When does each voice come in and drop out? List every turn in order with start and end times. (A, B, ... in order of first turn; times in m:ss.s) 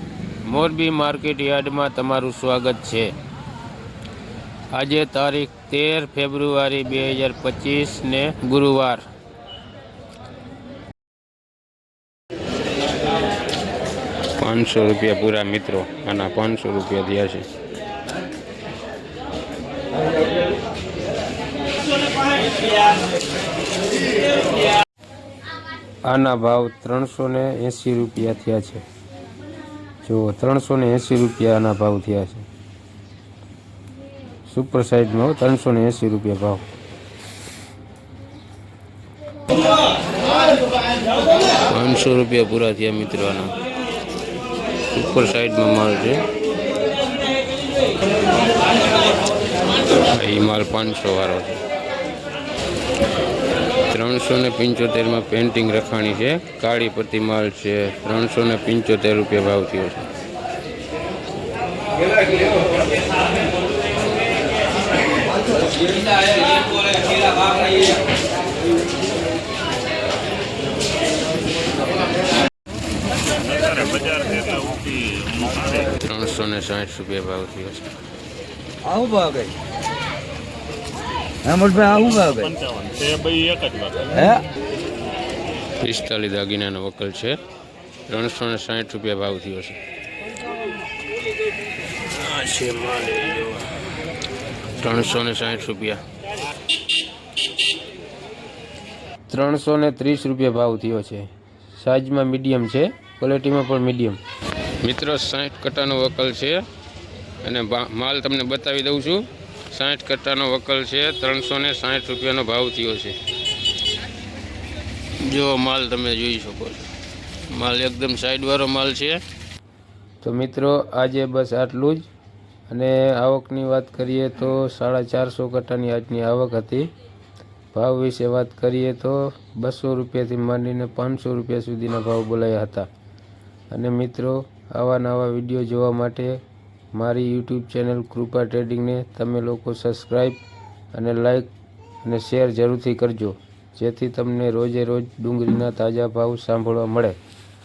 0:00.5-0:03.2 A
0:04.7-0:09.0 A
0:14.4-0:17.5 A
0:26.1-0:28.8 A
0:30.0-0:32.5 A
0:34.5-0:36.6 A
0:41.7-0:43.6 A
0:44.9-0:46.2 A
0:50.0-0:51.6 A
0:53.9-1:00.1 A
1:13.7-1:15.3 B
1:15.8-1:17.9 A
1:18.8-1:19.6 C
1:21.4-1:22.7 C
1:22.9-1:24.0 B
1:24.1-1:24.4 C
1:25.8-1:27.4 A
1:28.1-1:29.8 A
1:32.0-1:33.8 A
1:34.8-1:36.0 A
1:39.3-1:44.2 A
1:44.8-1:46.6 A
1:47.4-1:53.2 A
1:55.2-1:56.9 A
1:57.4-1:59.2 A
2:00.2-2:02.1 A
2:02.7-2:06.9 A
2:07.7-2:12.9 A
2:13.7-2:16.4 A
2:16.9-2:21.5 A
2:22.0-2:27.2 A